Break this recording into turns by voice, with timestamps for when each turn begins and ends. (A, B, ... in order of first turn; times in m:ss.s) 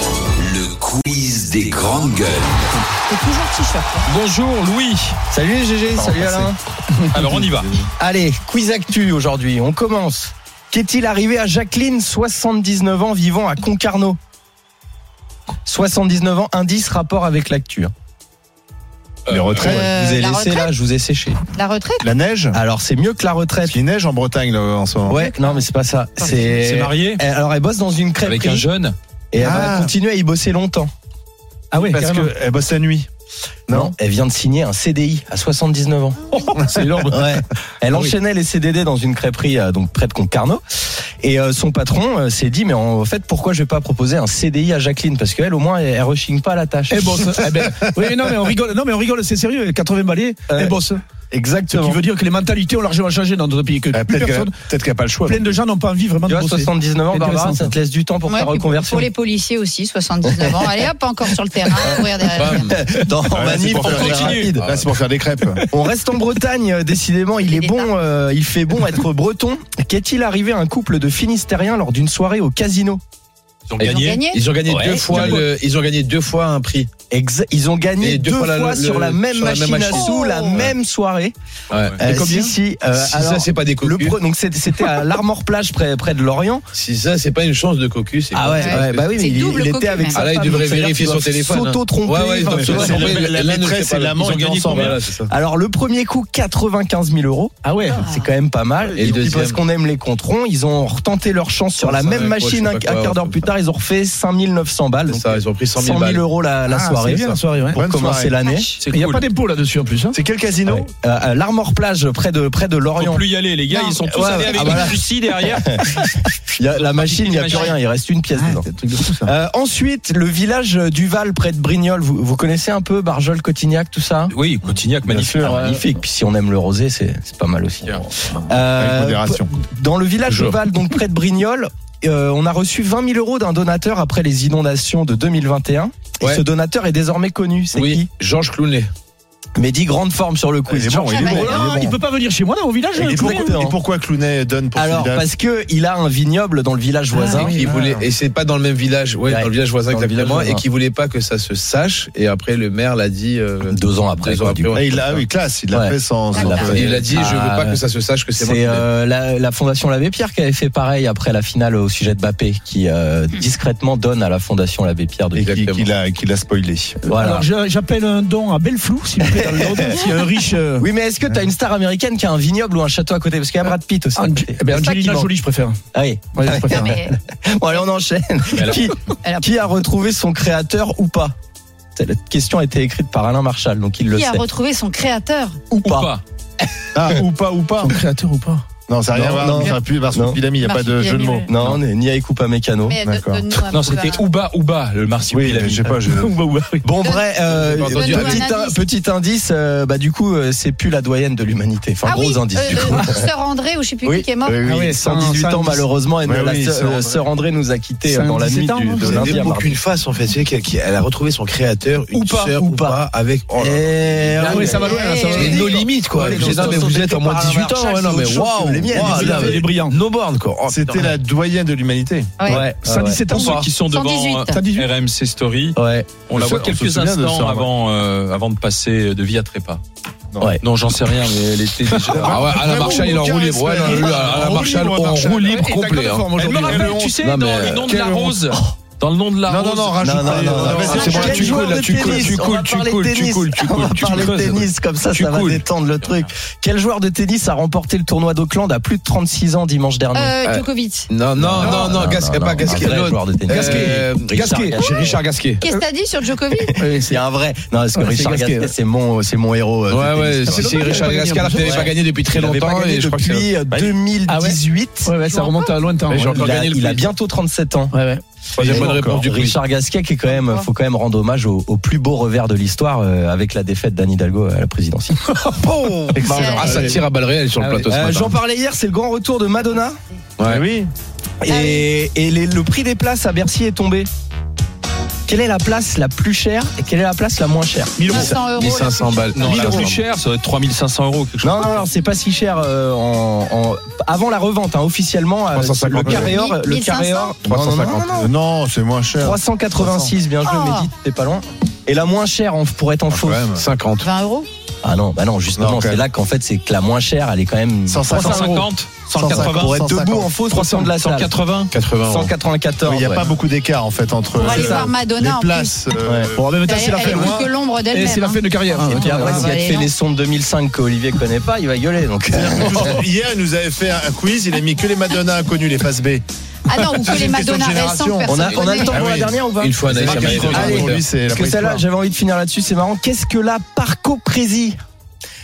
0:00.4-0:02.6 A
0:03.1-0:04.1 B
0:04.1-0:05.2 C
0:05.3-0:06.6 D
0:06.0-0:06.5 C
0:07.1-0:07.8 C
0:08.0-0:14.2 D
0:15.7-0:17.9 D
0:19.3-0:19.6 C
0:19.3-0:19.9 E
0:19.6-0:20.7 B
0:19.6-0:21.4 D
0:21.5-0:22.1 B
0:22.0-0:22.6 E
0:22.5-0:23.8 D
0:23.6-0:25.2 E
0:25.0-0:28.7 D
0:26.4-0:27.2 C
0:28.2-0:29.0 C
0:29.3-0:30.9 D
0:29.4-0:29.9 E
0:31.7-0:32.3 F
0:31.8-0:33.1 E
0:33.7-0:33.9 E
0:33.7-0:36.3 D
0:36.5-0:37.1 F
0:36.7-0:37.2 C
0:37.1-0:47.1 D
0:46.9-0:51.0 F
0:50.5-0:50.8 D
0:51.3-0:52.0 D
0:51.7-0:54.6 F
0:53.9-0:55.5 E
0:55.2-0:57.7 F
0:56.3-0:59.1 D
0:58.3-1:02.7 B
1:00.2-1:00.8 D
1:01.6-1:04.7 D
1:02.3-1:02.8 G
1:03.3-1:05.6 E
1:03.8-1:04.4 C
1:03.9-1:04.8 G
1:05.6-1:13.0 D
1:07.4-1:07.9 B
1:13.7-1:14.1 C
1:13.8-1:16.9 G
1:13.8-1:14.4 B
1:14.7-1:15.4 D
1:15.1-1:15.4 F
1:17.1-1:21.3 D
1:18.0-1:20.7 G
1:19.9-1:20.6 B
1:21.7-1:24.2 G
1:21.7-1:22.0 C
1:22.0-1:26.6 D
1:26.7-1:29.1 G
1:28.3-1:33.1 D
1:28.5-1:30.3 B
1:30.1-1:35.3 G
1:32.5-1:35.0 E
1:34.7-1:48.7 D
1:37.6-1:38.0 F
1:38.0-1:38.3 B
1:38.9-1:39.6 G
1:41.8-1:43.5 G
1:45.1-1:46.2 G
1:46.7-1:47.8 F
1:47.7-1:48.4 E
1:48.4-1:48.8 B
1:48.8-1:49.2 C
1:48.9-1:50.2 F
1:50.1-1:50.9 E
1:50.7-1:58.7 D
1:53.0-1:57.7 C
1:54.1-1:54.6 B
1:58.3-1:59.3 F
1:59.2-2:04.3 D
2:04.3-2:05.8 C
2:05.1-2:18.1 D
2:08.7-2:09.6 E
2:10.3-2:10.6 G
2:17.7-2:18.9 G
2:19.6-2:21.6 D
2:20.7-2:22.0 E
2:21.1-2:21.8 B
2:21.2-2:23.6 F
2:23.0-2:25.2 E
2:23.0-2:23.8 D
2:24.8-2:27.6 D
2:27.2-2:35.1 G
2:27.6-2:28.0 E
2:29.2-2:30.6 D
2:33.6-2:37.8 D
2:34.7-2:37.1 E
2:36.3-2:37.0 B
2:36.6-2:38.9 G
2:38.3-2:45.5 D
2:45.3-2:45.9 G
2:45.5-2:47.0 E
2:47.0-2:50.9 F
2:47.1-2:47.5 D
2:49.2-2:50.1 D
2:50.8-2:55.3 D
2:54.2-2:55.8 F
2:55.9-3:01.3 D
2:56.3-2:56.9 F
2:56.7-2:57.2 B
2:59.2-2:59.5 B
3:02.0-3:04.4 D
3:04.1-3:05.6 B
3:05.7-3:06.1 D
3:05.8-3:06.2 C
3:06.9-3:08.0 E
3:07.8-3:08.6 F
3:08.9-3:11.8 E
3:09.1-3:10.4 D
3:10.6-3:11.5 B
3:11.5-3:13.0 D
3:12.8-3:14.2 B
3:13.0-3:13.4 E
3:13.5-3:16.8 C
3:15.3-3:16.4 E
3:16.8-3:23.3 D
3:17.0-3:17.3 B
3:17.4-3:18.5 G
3:17.8-3:18.8 B
3:22.0-3:24.6 B
3:24.0-3:29.8 D
3:24.5-3:24.8 E
3:24.6-3:25.9 F
3:26.2-3:27.2 E
3:28.0-3:29.5 F
3:29.0-3:41.2 G
3:32.1-3:33.0 D
3:33.6-3:39.6 D
3:34.4-3:36.8 F
3:34.8-3:35.7 B
3:38.9-3:40.0 F
3:40.7-3:42.4 E
3:42.4-3:42.7 B
3:42.4-3:43.3 D
3:42.6-3:43.7 F
3:43.3-3:44.6 B
3:43.3-3:49.8 C
3:44.5-3:44.9 F
3:45.8-3:46.2 D
3:46.3-3:47.7 E
3:50.6-3:53.0 C
3:51.9-3:58.0 G
3:52.1-3:55.7 E
3:55.6-3:57.2 F
3:56.4-3:57.2 E
3:56.4-4:05.6 C
3:57.8-3:58.5 E
3:59.5-4:01.7 E
4:00.0-4:10.3 D
4:00.9-4:01.5 B
4:01.9-4:02.7 G
4:10.1-4:11.1 B
4:10.4-4:15.6 G
4:11.3-4:15.1 D
4:11.6-4:11.9 F
4:13.5-4:14.1 F
4:15.6-4:16.8 B
4:16.6-4:20.8 D
4:16.8-4:17.2 F
4:17.9-4:18.7 F
4:19.9-4:23.5 G
4:20.4-4:21.9 F
4:21.6-4:25.2 D
4:24.3-4:26.5 F
4:25.3-4:25.8 B
4:26.1-4:27.1 G
4:26.3-4:27.9 D
4:27.9-4:28.2 F
4:28.5-4:29.2 E
4:28.6-4:29.6 G
4:28.6-4:35.2 D
4:30.3-4:30.7 B
4:35.6-4:38.4 G
4:36.2-4:37.0 E
4:36.2-4:36.9 B
4:36.3-4:37.0 D
4:37.8-4:40.0 D
4:40.4-4:40.6 G
4:40.4-4:40.9 E
4:41.4-4:44.1 D
4:41.5-4:41.9 B
4:45.3-4:48.3 D
4:48.0-4:48.4 F
4:48.1-4:49.6 B
4:48.4-4:50.0 G
4:49.3-4:51.7 C
4:51.4-4:58.3 D
4:55.5-4:56.3 G
4:56.0-4:56.3 E
4:56.2-4:57.4 B
4:57.4-4:58.1 G
4:57.5-5:00.1 E
4:59.2-5:03.6 D
5:00.4-5:00.9 B
5:03.1-5:03.7 E
5:03.6-5:04.1 G
5:04.0-5:04.5 B
5:04.8-5:08.6 D
5:05.6-5:06.0 E
5:07.9-5:10.4 E
5:08.1-5:09.8 C
5:09.2-5:11.3 D
5:10.4-5:11.7 C
5:11.7-5:12.3 G
5:12.0-5:13.3 D
5:12.8-5:17.5 E
5:14.3-5:15.8 B
5:14.4-5:14.9 D
5:16.0-5:16.3 D
5:16.4-5:19.5 F
5:16.6-5:19.9 B
5:18.8-5:23.0 D
5:22.3-5:26.2 E
5:26.7-5:29.1 B
5:26.8-5:31.8 E
5:28.3-5:34.8 D
5:28.5-5:28.8 G
5:29.6-5:31.0 G